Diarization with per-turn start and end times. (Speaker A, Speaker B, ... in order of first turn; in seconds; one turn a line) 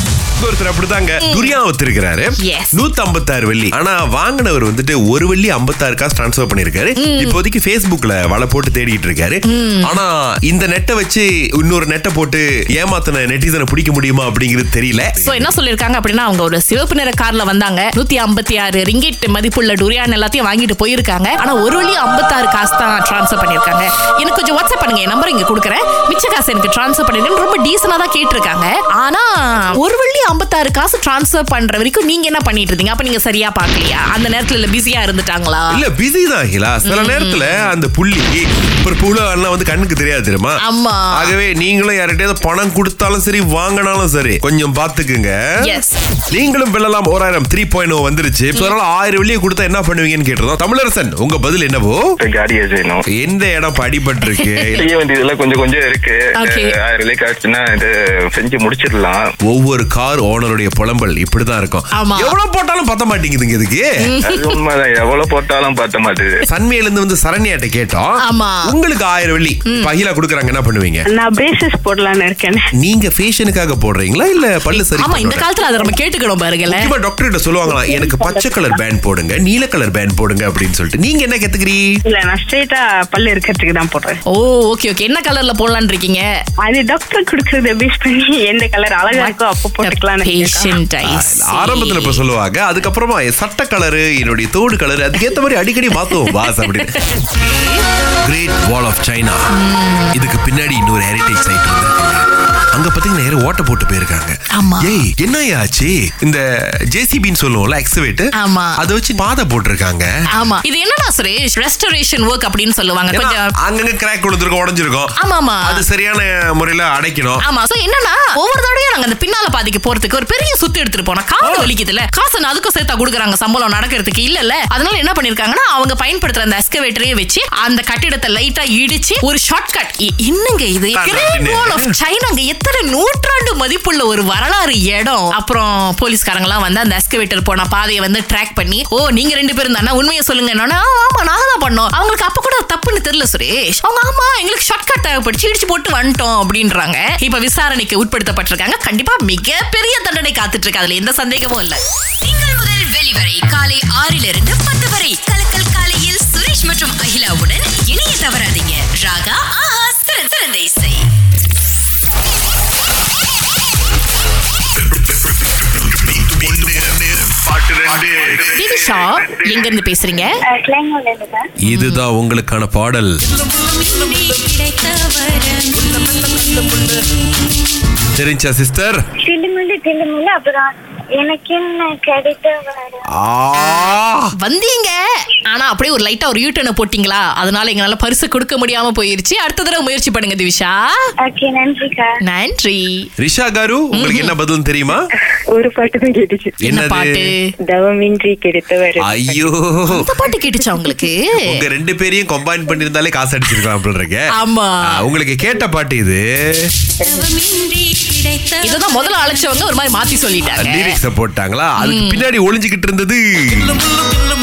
Speaker A: 0.4-15.5
Speaker B: 1.2-1.5
Speaker B: 2.4-2.8
Speaker B: 7.0-7.4
Speaker B: 9.5-9.9
Speaker B: 15.2-35.8
Speaker A: 35.7-40.6
Speaker B: 36.8-37.7
Speaker B: 40.6-41.3
Speaker A: 41.1-45.4
Speaker B: 45.6-46.0
Speaker A: 46.3-52.0
Speaker C: 52.2-53.0
Speaker A: 53.1-54.8
Speaker B: 54.3-54.8
Speaker C: 54.8-59.2
Speaker B: 56.4-56.7
Speaker A: 59.4-63.8
Speaker B: 62.0-62.3
Speaker B: 64.0-64.6
Speaker C: 64.2-66.3
Speaker A: 66.5-71.0
Speaker B: 68.2-68.6
Speaker D: 71.1-72.6
Speaker A: 72.8-75.5
Speaker B: 74.7-76.9
Speaker A: 76.7-81.8
Speaker D: 77.7-78.7
Speaker D: 82.1-84.2
Speaker B: 84.3-86.2
Speaker D: 86.6-90.7
Speaker B: 89.1-92.2
Speaker A: 91.0-97.0
Speaker B: 95.9-97.7
Speaker A: 98.2-99.5
Speaker B: 99.5-100.2
Speaker A: 100.1-110.1
Speaker B: 104.5-105.0
Speaker B: 108.4-108.8
Speaker B: 110.3-113.5
Speaker A: 113.1-117.4
Speaker B: 115.2-115.8
Speaker B: 117.4-151.8
Speaker A: 121.4-121.7
Speaker A: 130.9-131.9
Speaker E: 152.2-161.0
Speaker A: 165.8-168.5
Speaker B: 168.5-170.3
Speaker F: 170.5-171.4
Speaker A: 171.6-173.2
Speaker B: 171.6-172.0
Speaker E: 173.4-177.0
Speaker A: 178.2-179.0
Speaker F: 179.2-183.1
Speaker A: 183.2-184.3
Speaker B: 183.7-190.8
Speaker F: 191.2-192.1
Speaker B: 192.2-193.1
Speaker A: 193.2-195.0
Speaker B: 193.9-194.3
Speaker G: 195.5-196.6
Speaker A: 196.6-197.2
Speaker B: 196.7-197.5
Speaker G: 197.6-199.5
Speaker A: 199.0-200.1
Speaker B: 199.9-201.2
Speaker A: 201.4-204.2
Speaker B: 204.3-204.8
Speaker A: 204.9-206.7
Speaker E: 207.0-209.1
Speaker B: 208.6-211.0
Speaker A: 210.5-213.8
Speaker B: 211.8-212.3